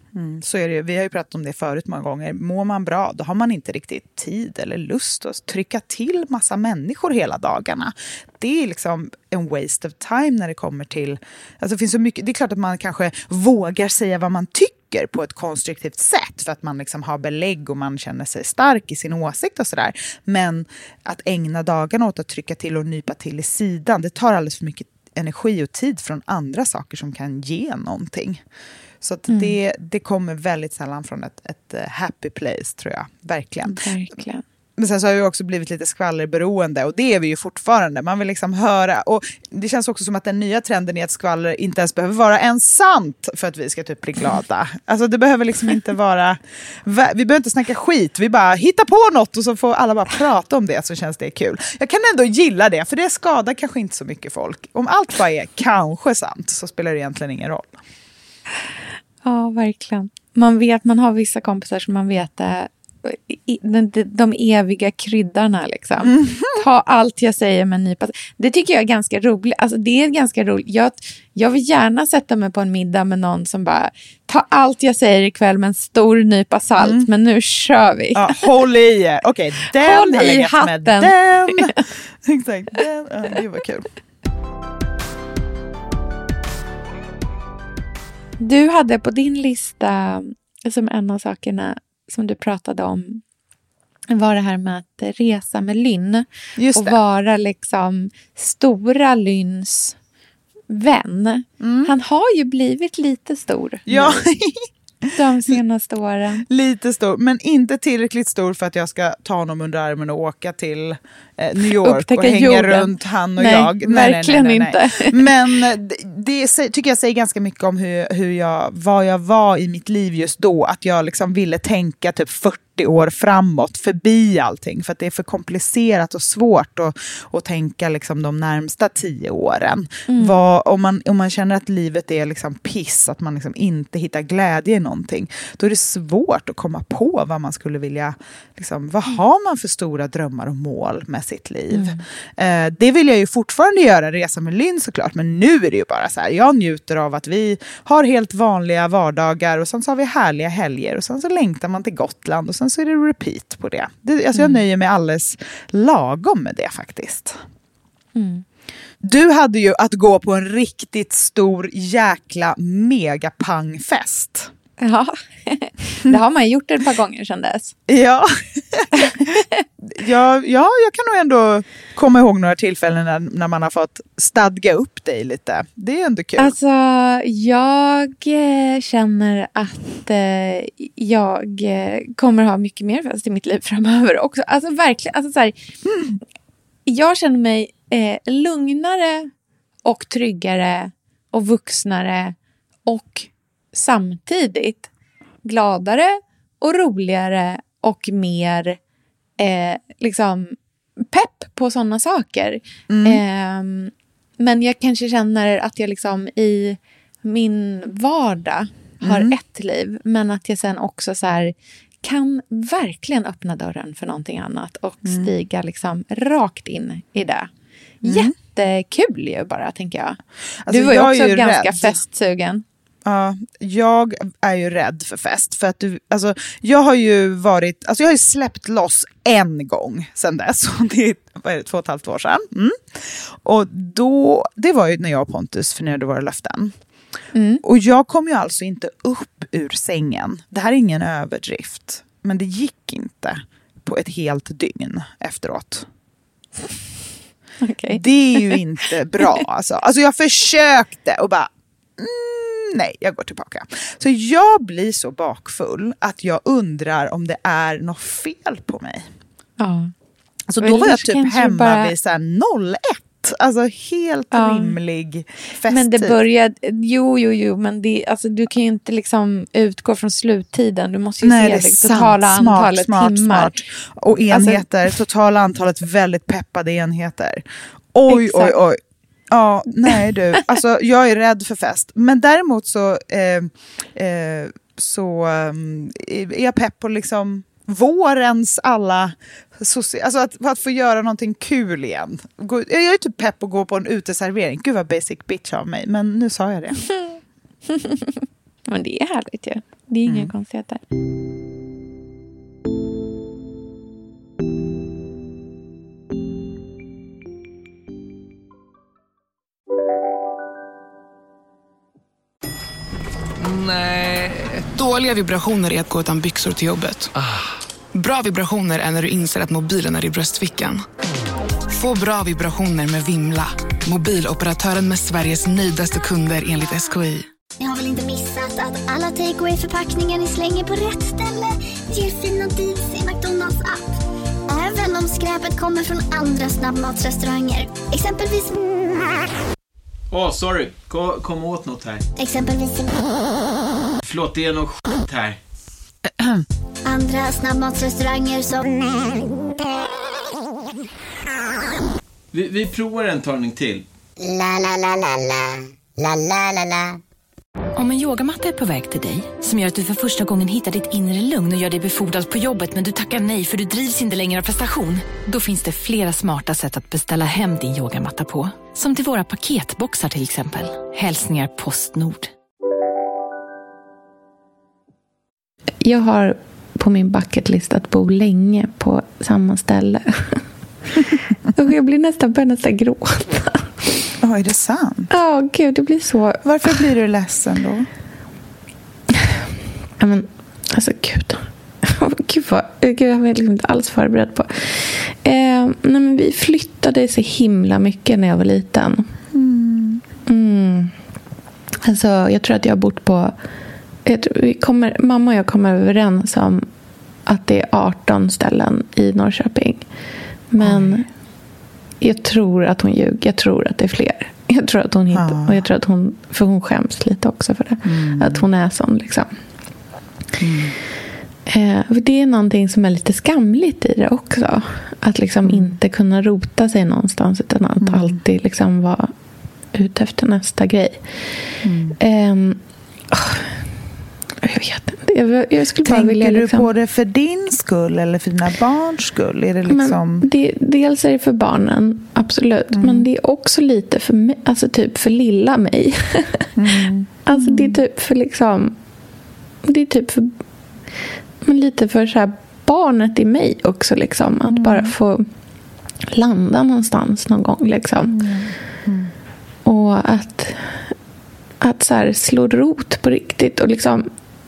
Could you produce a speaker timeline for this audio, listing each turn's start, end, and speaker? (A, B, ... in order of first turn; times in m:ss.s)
0:00.1-0:28.4 A
0:29.0-0:33.8 A
0:29.3-0:29.6 B
0:33.6-0:34.4 B
0:34.8-0:57.8 A
0:59.2-1:18.5 B
1:06.0-1:06.6 A
1:16.8-1:17.1 A
1:18.1-1:23.9 A
1:19.8-1:21.7 B
1:28.4-1:33.2 B
1:34.1-1:40.0 B
1:36.6-1:37.0 A
1:40.7-1:44.3 B
1:41.6-1:41.9 A
1:43.9-1:44.7 A
1:45.1-1:46.4 B
1:46.4-2:37.4 A
1:51.6-1:55.6 B
2:10.1-2:10.4 B
2:21.7-2:22.0 B
2:34.3-2:34.6 B
2:38.1-2:38.4 B
2:39.0-2:44.5 A
2:44.8-2:47.8 B
2:47.9-2:49.3 A
2:49.0-2:49.6 B
2:49.8-2:56.6 A
2:56.4-3:05.6 B
3:06.8-3:09.3 B
3:09.8-3:12.3 B
3:12.8-3:14.9 B
3:15.4-3:18.8 B
3:19.4-3:37.5 B
3:22.9-3:23.2 A
3:29.0-3:29.3 A
3:38.0-3:42.6 B
3:38.0-3:38.3 A
3:40.6-3:42.0 A
3:43.0-3:56.7 A
3:57.3-3:57.6 B
3:57.6-4:05.9 A
4:07.6-4:08.6 B
4:07.9-4:19.1 A
4:19.6-4:19.9 B
4:20.5-4:26.2 A
4:20.6-4:21.9 B
4:24.3-4:24.8 B
4:25.7-4:33.6 B
4:31.2-4:56.8 A
4:34.3-4:34.6 B
4:38.1-4:38.6 B
4:57.7-5:00.8 B
5:00.0-5:00.3 A
5:13.4-5:17.3 C
5:17.9-5:20.8 C
5:21.7-5:27.2 C
5:27.6-5:33.9 D
5:34.5-5:38.6 D
5:40.1-5:42.0 E
5:42.2-5:43.2 D
5:44.0-5:45.4 E
5:46.8-5:49.2 D
5:52.3-5:53.8 E
5:57.7-6:12.3 F
6:15.8-6:20.4 B
6:21.5-6:23.7 B
6:24.2-6:25.1 A
6:25.1-6:26.8 B
6:26.4-6:27.9 A
6:30.0-6:39.1 B
6:39.3-6:40.0 A
6:40.3-6:40.9 B
6:41.8-6:43.3 B
6:44.0-6:46.6 B
6:47.3-6:49.8 B
6:50.5-6:51.0 B
6:50.6-6:51.0 A
6:52.0-6:59.3 B
6:55.1-6:55.7 A
6:57.8-6:58.4 A
7:00.4-7:00.7 A
7:01.5-7:09.1 B
7:05.4-7:05.7 A
7:07.8-7:08.2 A
7:09.7-7:11.0 B
7:11.6-7:12.0 A
7:12.0-7:12.6 B
7:13.1-7:13.4 B
7:14.4-7:16.7 B
7:15.8-7:20.3 A
7:19.7-7:26.5 B
7:22.7-7:23.1 A
7:26.6-7:27.8 A
7:27.3-7:28.7 B
7:29.6-7:30.3 B
7:31.4-7:35.2 B
7:34.5-7:35.0 A
7:36.1-7:38.1 B
7:38.1-7:39.1 A
7:39.6-7:40.8 B
7:41.6-7:44.0 B